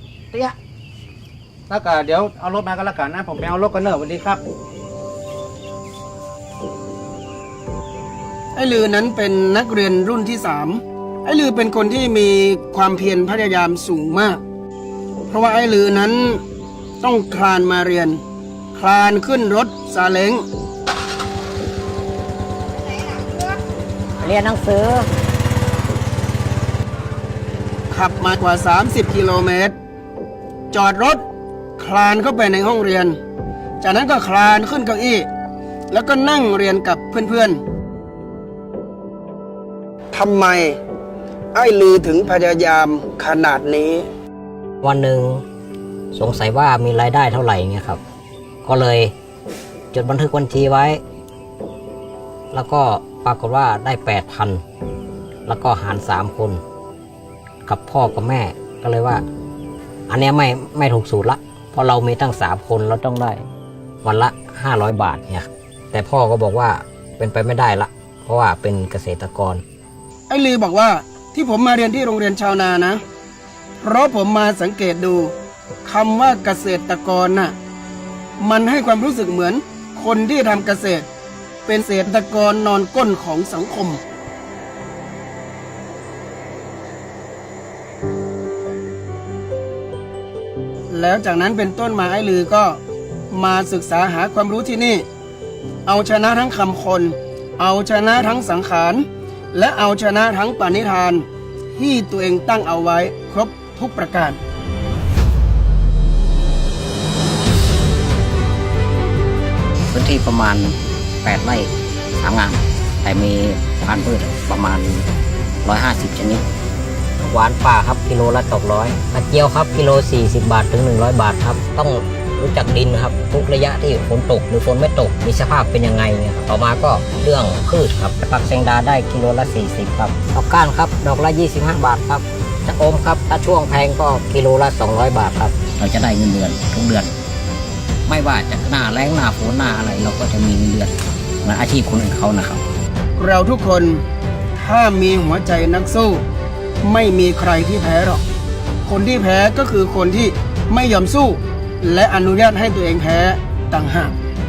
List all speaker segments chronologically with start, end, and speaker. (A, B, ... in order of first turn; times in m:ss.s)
0:01.7-0:04.4 A
0:08.5-0:14.4 B
0:15.3-0:16.4 B
0:17.0-0:18.2 B
0:18.7-0:20.4 B
0:24.2-0:25.0 C
0:27.9-0:29.7 B
0:30.7-0:31.2 B
0:31.8-0:33.2 B
0:33.8-0:35.3 B
0:35.9-0:37.6 B
0:40.1-0:40.8 B
0:41.5-0:44.1 B
0:44.8-0:45.4 C
0:46.1-0:48.0 C
0:48.6-0:49.1 C
0:49.9-0:51.0 C
0:52.5-0:54.6 C
0:55.5-0:56.6 C
0:57.6-0:59.2 C
1:00.1-1:03.4 C
1:04.0-1:09.6 C
1:10.3-1:13.0 B
1:13.8-1:15.3 B
1:15.8-1:17.5 B
1:18.4-1:21.0 B
1:21.6-1:24.0 B
1:30.9-1:32.8 B
1:33.3-1:35.0 B
1:35.8-1:44.4 B
1:49.9-1:51.7 C
1:52.2-1:55.0 C
1:55.6-1:56.4 C
1:57.2-2:17.1 C
2:18.1-2:20.9 C
2:21.4-2:22.6 C
2:23.2-2:24.0 B
2:24.6-2:26.2 B
2:26.8-2:28.2 B
2:28.8-2:34.1 B